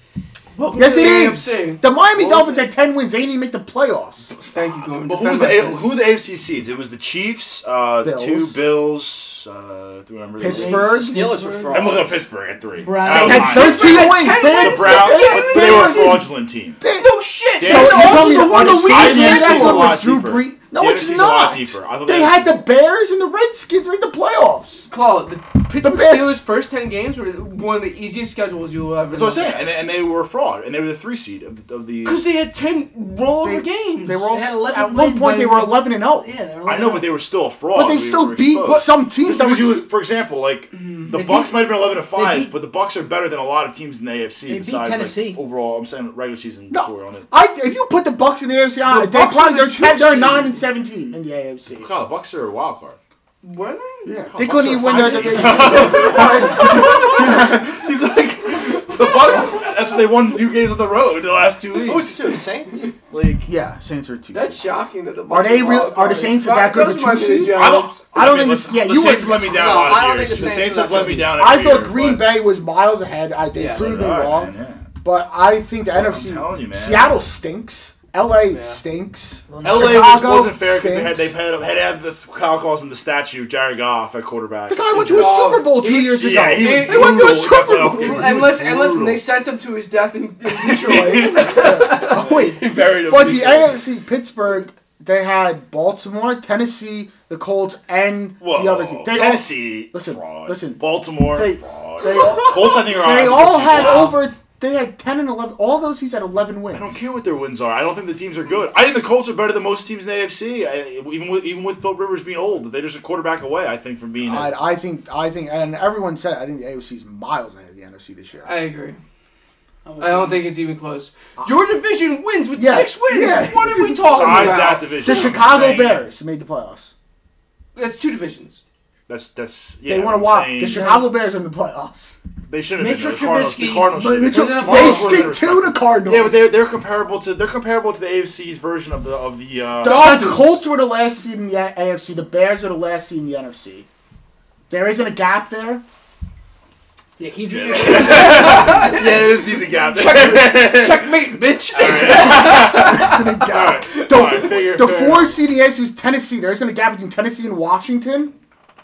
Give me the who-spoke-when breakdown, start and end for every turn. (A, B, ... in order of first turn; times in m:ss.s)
0:00.6-0:01.8 A
0:00.7-0:04.3 B
0:04.4-0:11.0 C
0:04.5-0:05.9 A
0:08.0-0:08.6 B
0:10.4-0:11.3 B
0:10.4-0:12.0 D
0:11.0-0:12.2 E
0:11.7-0:16.8 C
0:12.8-0:13.7 D
0:13.1-0:16.2 B
0:13.4-0:16.2 A
0:16.8-0:24.9 B
0:16.9-0:20.0 A
0:17.6-0:22.6 C
0:24.9-0:29.7 A
0:25.8-0:26.4 B
0:29.1-0:32.2 C
0:32.0-0:34.2 A
0:33.4-0:36.3 B
0:34.3-0:37.1 D
0:36.6-0:47.3 C
0:37.7-0:39.8 B
0:40.7-0:41.1 A
0:42.1-0:42.5 D
0:44.4-0:45.4 D
0:46.7-0:51.9 B
0:51.7-0:53.0 C
0:53.4-0:54.1 A
0:54.0-0:57.8 B
0:54.3-1:02.3 C
0:55.3-0:57.2 A
0:59.0-0:59.7 A
1:01.8-1:02.9 E
1:03.1-1:03.5 C
1:03.4-1:04.6 B
1:04.3-1:08.1 A
1:05.3-1:21.4 B
1:07.5-1:12.3 C
1:09.4-1:11.4 E
1:13.5-1:14.0 E
1:13.7-1:14.9 C
1:15.8-1:17.2 C
1:18.5-1:18.8 E
1:19.5-1:20.2 D
1:19.6-1:29.2 C
1:24.7-1:28.6 B
1:25.0-1:32.3 A
1:30.7-1:33.8 C
1:31.4-1:47.0 B
1:38.4-1:44.2 C
1:46.7-1:54.5 C
1:54.2-1:58.5 B
1:58.4-1:59.0 A
1:59.8-2:00.4 D
2:00.0-2:05.4 A
2:02.5-2:06.9 B
2:04.0-2:06.0 C
2:07.7-2:08.6 A
2:09.1-2:10.9 C
2:09.8-2:12.2 B
2:10.7-2:11.1 D
2:12.5-2:20.5 C
2:12.8-2:15.4 D
2:13.9-2:16.5 B
2:19.8-2:23.9 B
2:19.8-2:20.5 A
2:24.7-2:25.8 B
2:27.2-2:28.6 D
2:27.5-2:31.1 C
2:27.7-2:34.6 A
2:31.7-2:35.4 C
2:32.1-2:38.3 B